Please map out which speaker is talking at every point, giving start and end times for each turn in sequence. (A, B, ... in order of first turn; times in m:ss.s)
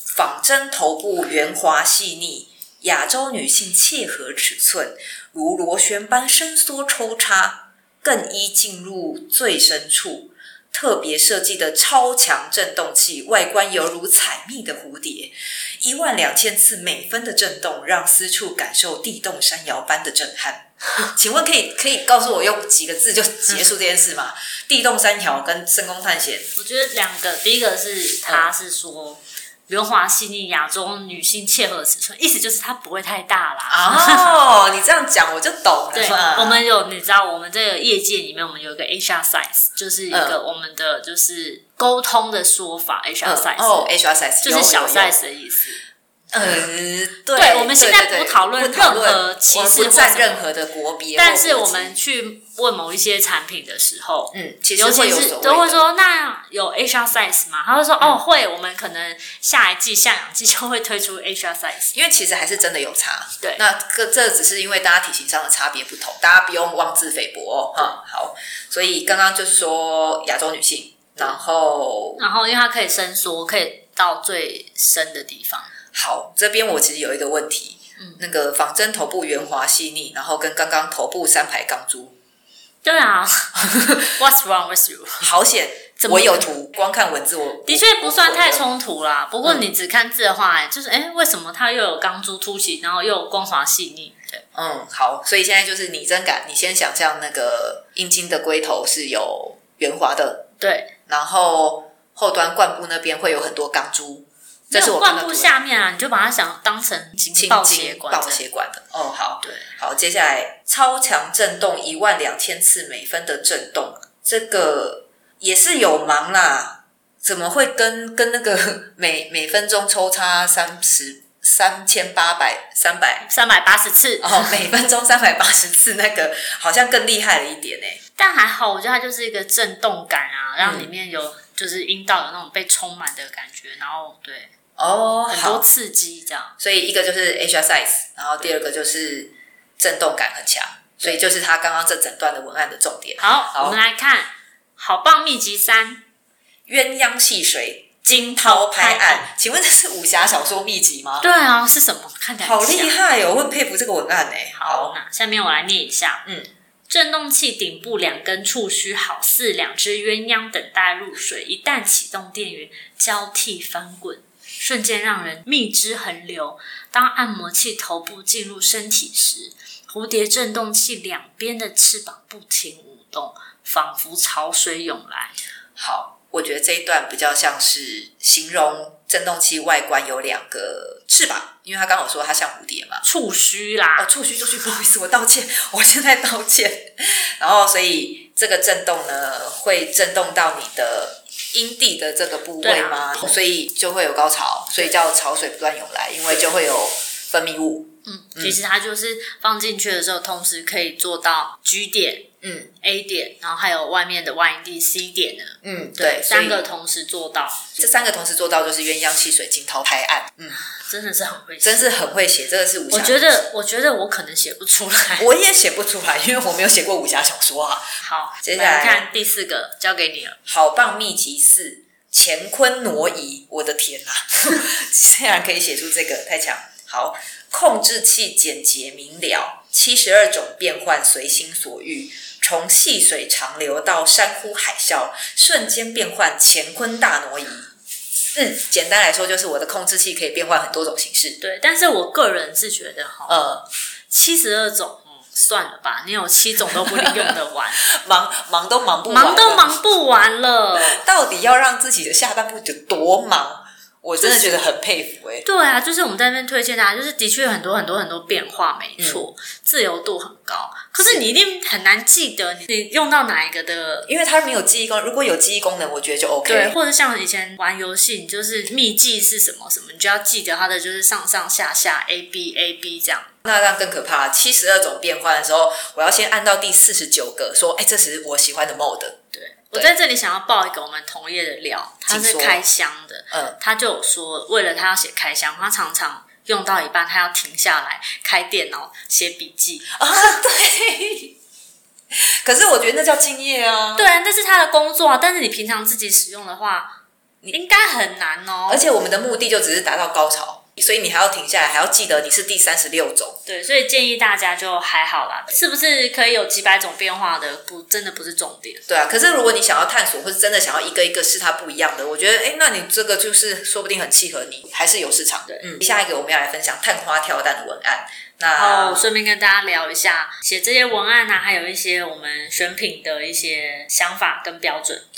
0:00.1-0:26.5 A
0:26.5-0:34.5 B
0:33.7-0:36.6 A
0:35.9-0:45.8 B
0:40.1-0:40.4 A
0:43.2-0:45.2 A
0:46.3-0:52.0 A
0:47.3-0:50.5 B
0:51.2-1:01.9 B
0:54.3-0:55.9 A
1:01.9-1:12.2 A
1:12.2-1:15.7 B
1:15.9-1:22.1 A
1:22.8-1:25.3 B
1:25.2-1:28.6 A
1:26.0-1:26.5 B
1:27.6-1:34.4 B
1:34.5-1:40.5 A
1:40.6-1:40.9 B
1:41.1-1:45.5 A
1:44.7-1:48.4 B
1:47.3-2:03.3 A
2:03.2-2:04.6 B
2:04.2-2:08.0 A
2:08.2-2:14.5 B
2:10.6-2:10.9 A
2:14.8-2:15.7 A
2:15.3-2:16.5 B
2:16.6-2:23.8 A
2:23.2-2:26.0 B
2:26.7-2:31.3 A
2:28.0-2:29.3 B
2:31.2-2:33.0 B
2:32.4-2:34.9 A
2:34.6-2:36.2 B
2:36.9-2:55.3 B
2:55.8-3:03.0 A
3:03.0-3:04.1 B
3:04.0-3:18.6 A
3:12.6-3:13.4 B
3:18.0-3:22.3 B
3:22.4-3:22.7 A
3:22.8-3:27.8 B
3:25.6-3:26.6 A
3:27.8-3:30.6 A
3:30.6-3:31.9 B
3:31.6-3:33.4 A
3:32.9-3:35.2 B
3:35.2-3:37.9 A
3:38.0-3:40.4 B
3:38.4-3:39.1 A
3:40.5-3:57.7 A
3:58.3-4:01.4 A
4:01.4-4:03.5 B
4:03.3-4:03.6 A
4:04.1-4:07.8 B
4:06.8-4:07.3 A
4:07.8-4:09.8 A
4:09.1-4:11.0 B
4:10.7-4:15.4 A
4:14.2-4:14.6 B
4:15.4-4:24.1 B
4:19.0-4:19.2 A
4:21.0-4:21.2 A
4:24.1-4:26.8 A
4:26.4-4:33.3 B
4:33.4-4:39.2 A
4:39.3-4:50.0 B
4:42.1-4:42.6 A
4:50.0-4:51.4 A
4:52.4-4:54.1 A
4:54.0-4:57.0 B
4:57.5-4:58.8 B
4:58.7-5:03.4 A
5:03.4-5:08.8 B
5:08.9-5:19.1 A
5:18.5-5:25.0 B